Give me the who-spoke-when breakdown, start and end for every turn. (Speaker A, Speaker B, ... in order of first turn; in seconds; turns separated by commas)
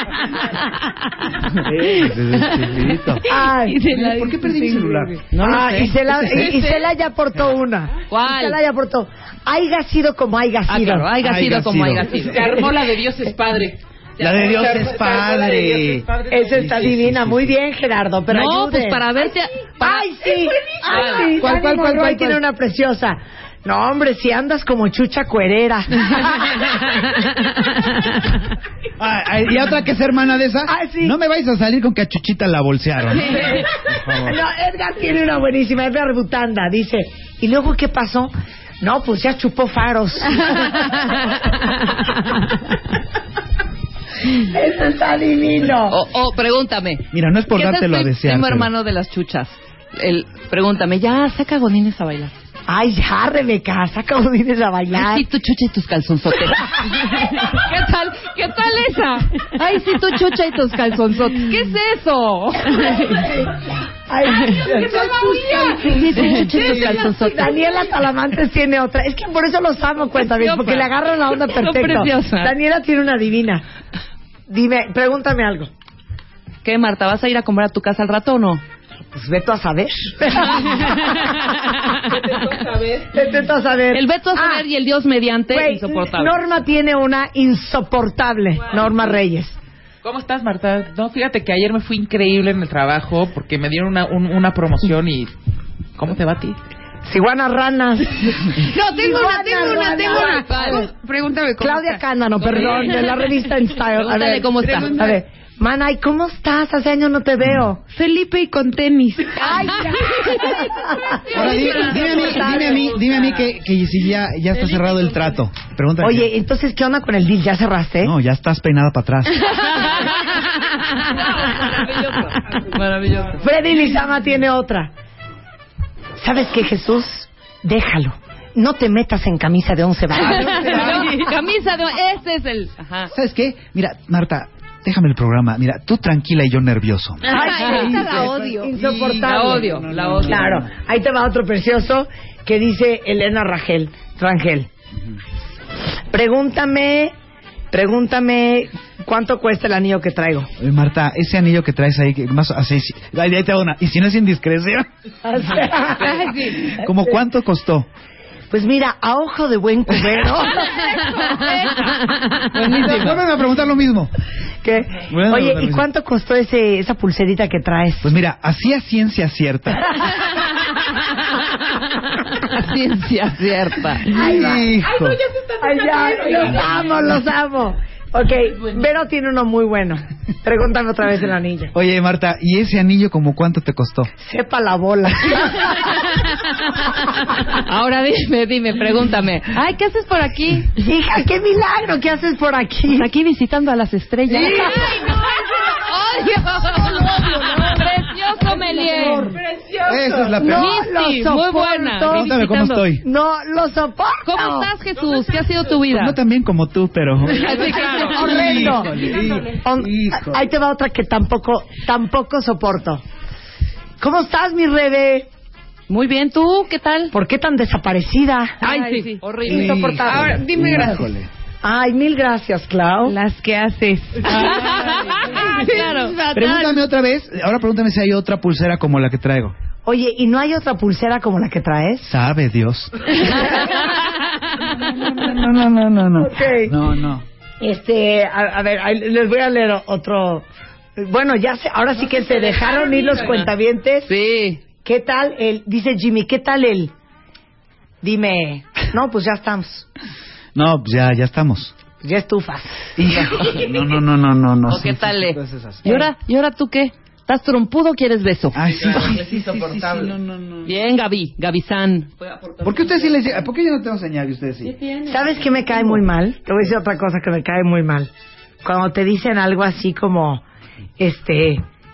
Speaker A: 1.6-3.2, Speaker B: 3.3-3.9, Speaker A: 3.8-5.2, Speaker C: 3.9-4.4, Speaker D: 5.3-6.7, Speaker B: 5.4-11.1, Speaker A: 5.8-6.5, Speaker D: 8.1-8.6, Speaker D: 10.7-12.4, Speaker A: 11.2-12.3, Speaker E: 12.2-17.0, Speaker A: 14.2-17.6, Speaker B: 16.3-19.1, Speaker D: 18.3-20.1, Speaker B: 19.8-26.8, Speaker D: 20.9-21.2, Speaker A: 21.0-22.4, Speaker A: 29.0-34.4, Speaker B: 30.7-31.1, Speaker B: 34.2-41.3, Speaker B: 44.4-46.0, Speaker D: 45.9-52.4, Speaker A: 47.1-48.7, Speaker B: 52.7-55.2, Speaker D: 54.9-63.1, Speaker B: 63.0-73.6, Speaker A: 64.9-67.0, Speaker D: 65.5-67.6, Speaker D: 70.2-72.5, Speaker B: 74.5-75.7, Speaker D: 76.6-78.6, Speaker B: 79.1-81.3, Speaker E: 82.0-83.1, Speaker B: 83.1-84.7, Speaker D: 83.9-86.4, Speaker B: 85.5-89.6, Speaker E: 90.0-95.3, Speaker E: 96.0-96.6, Speaker B: 97.0-100.8, Speaker C: 98.6-102.0, Speaker D: 100.1-100.9, Speaker B: 101.6-107.8, Speaker D: 104.0-105.0, Speaker C: 107.9-110.6, Speaker B: 109.4-111.5, Speaker A: 111.3-116.3, Speaker C: 111.3-112.6, Speaker B: 112.4-112.8, Speaker E: 112.7-113.3, Speaker B: 116.0-118.1, Speaker A: 118.0-119.5, Speaker D: 119.7-120.2, Speaker D: 121.2-123.5, Speaker B: 123.4-124.9, Speaker B: 126.2-131.0, Speaker A: 130.2-131.1, Speaker D: 130.2-133.1, Speaker A: 133.1-140.7, Speaker B: 137.3-144.7, Speaker C: 137.3-138.6, Speaker D: 137.4-138.3, Speaker D: 139.2-140.6, Speaker B: 146.1-147.1, Speaker B: 147.7-150.5, Speaker A: 150.6-154.9, Speaker B: 155.2-156.3, Speaker A: 156.5-157.9, Speaker B: 158.5-160.9, Speaker C: 161.3-161.9, Speaker A: 162.6-164.1, Speaker D: 162.6-163.1, Speaker B: 164.6-168.1, Speaker A: 165.1-165.9, Speaker A: 168.0-170.0, Speaker D: 172.5-174.3, Speaker B: 174.1-174.7, Speaker A: 174.1-175.2, Speaker E: 174.6-177.2, Speaker B: 175.6-181.7, Speaker A: 181.7-184.1, Speaker B: 184.2-186.0, Speaker D: 187.5-190.7, Speaker B: 190.8-193.1, Speaker D: 192.9-194.9, Speaker B: 194.3-194.9, Speaker D: 195.8-199.3, Speaker A: 198.9-199.2, Speaker B: 198.9-199.3, Speaker E: 199.3-200.4, Speaker A: 199.8-200.8, Speaker B: 200.4-202.3, Speaker D: 200.4-202.9, Speaker A: 202.0-203.0, Speaker B: 203.0-204.7, Speaker D: 204.2-206.2, Speaker A: 205.9-210.5, Speaker D: 207.4-208.6, Speaker B: 208.0-209.1, Speaker B: 209.6-213.0, Speaker B: 214.0-215.3, Speaker D: 215.9-217.1, Speaker B: 217.1-218.6, Speaker C: 218.6-219.3, Speaker D: 218.6-220.0, Speaker A: 219.4-221.3, Speaker B: 219.5-220.4, Speaker C: 220.1-221.1, Speaker B: 221.6-223.2, Speaker C: 223.1-226.6, Speaker D: 224.2-226.8, Speaker A: 226.3-229.6, Speaker B: 229.8-232.1, Speaker A: 232.0-233.7, Speaker A: 234.6-237.2, Speaker B: 236.2-236.8, Speaker B: 237.6-240.5, Speaker B: 241.0-244.1, Speaker E: 242.0-243.5, Speaker D: 244.1-244.6, Speaker B: 244.8-246.9, Speaker B: 248.0-249.9, Speaker A: 250.6-251.7, Speaker B: 252.0-253.2, Speaker A: 253.0-255.8, Speaker D: 254.7-259.1, Speaker A: 258.5-260.8, Speaker E: 258.7-260.1, Speaker D: 260.6-263.4, Speaker A: 262.6-264.7, Speaker D: 264.6-266.0, Speaker B: 265.1-268.1, Speaker B: 268.6-270.4, Speaker B: 271.0-271.6